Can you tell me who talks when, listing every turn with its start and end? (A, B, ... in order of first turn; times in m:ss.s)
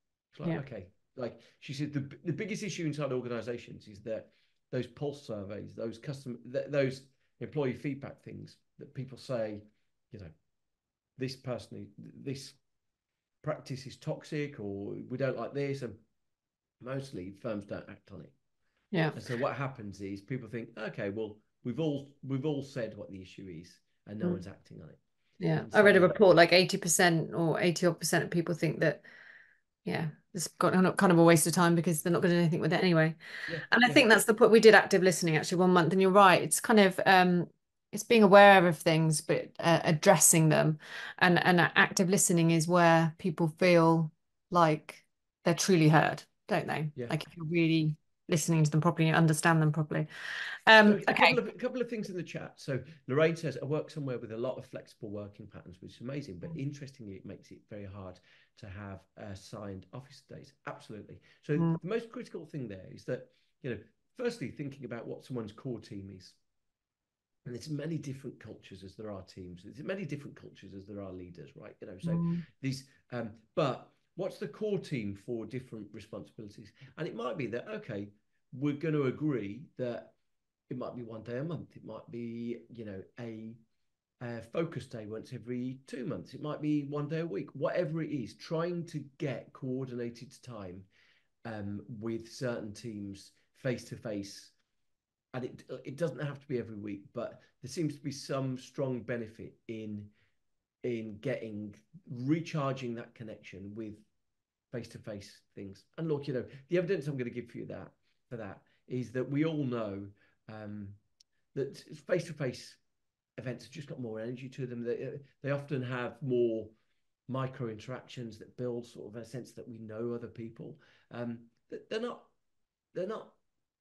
0:00.3-0:10.3 A
0:11.2-0:12.6 A
0:13.4-0:16.0 A
0:16.8-0:18.3 A
0:18.9-0:19.2 B
0:19.1-0:25.0 A
0:25.4-0:29.0 B
0:25.5-0:26.2 A
0:29.8-0:33.2 B
0:33.5-0:34.1 A
0:33.7-0:51.4 B
0:50.8-1:06.4 A
1:07.4-1:20.2 A
1:12.0-1:12.4 B
1:20.7-1:23.6 A
1:24.2-1:30.9 A
1:31.4-1:34.5 A
1:35.3-1:40.1 A
1:40.8-1:44.1 A
1:44.7-1:51.0 A
1:51.5-1:52.8 A
1:53.4-1:56.7 A
1:57.3-2:02.3 A
2:02.9-2:03.4 A